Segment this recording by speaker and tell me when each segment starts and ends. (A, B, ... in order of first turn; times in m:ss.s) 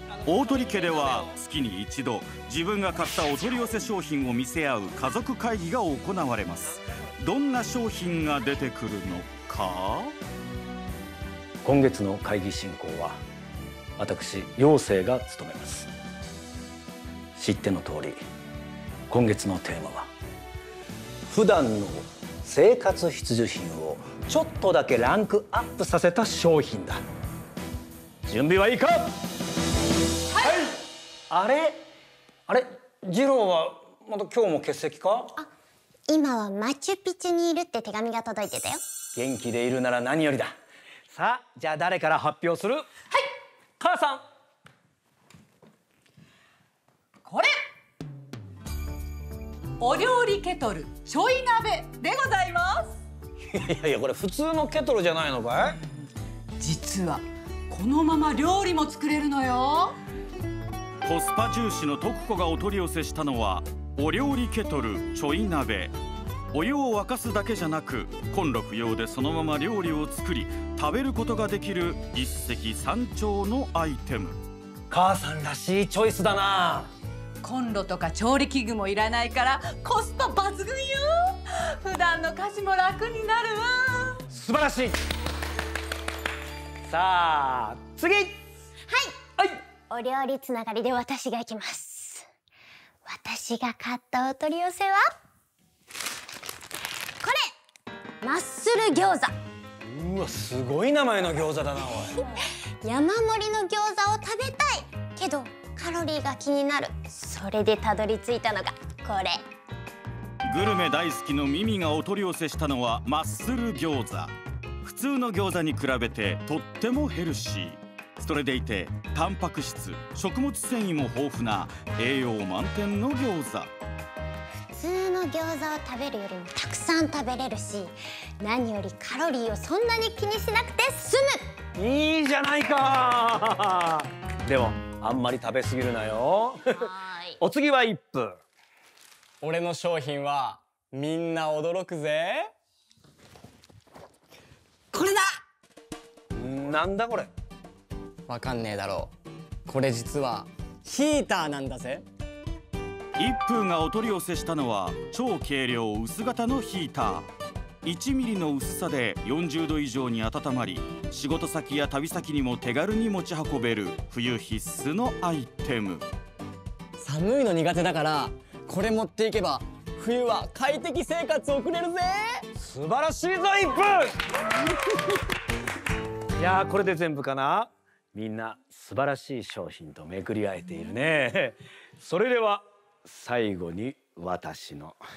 0:00.2-0:10.2 A
0:11.6-0:13.2 B
0:14.0-0:15.9 B
0:17.4-0:18.2 B
0:19.1-0:20.1 B
0:21.3-0:27.0 B
0:28.3-0:29.2 B
0:30.3-0:30.6 C
0:30.4-0:30.7 B
0:31.3-0:31.9 B
0:32.5-0:35.3 B
0:36.1-0:38.8 D
0:39.2-0:40.6 B
0:41.1-0:42.9 B
0:43.8-0:44.3 B
0:47.2-0:47.6 C
0:49.8-0:53.0 C
0:53.5-0:55.8 B
0:56.6-1:00.0 C
1:01.0-1:05.9 A
1:06.5-1:14.4 A
1:14.9-1:16.9 B
1:17.4-1:24.2 C
1:24.3-1:25.0 B
1:26.8-1:28.4 B
1:28.9-1:29.2 D
1:29.9-1:32.3 D
1:33.0-1:35.0 D
1:37.2-1:37.5 D
1:38.2-1:39.3 D
1:39.8-1:42.2 B
1:42.2-1:49.4 D
1:50.4-2:03.7 A
2:04.7-2:11.5 D
2:11.8-2:16.8 B
2:16.7-2:17.4 D
2:17.4-2:18.4 B
2:19.4-2:22.5 E
2:26.3-2:27.3 B
2:28.3-2:29.1 E
2:29.7-2:32.1 E
2:33.2-2:37.3 A
2:37.8-2:46.1 A
2:47.0-2:52.4 E
2:52.5-2:54.4 B
2:56.4-3:05.0 B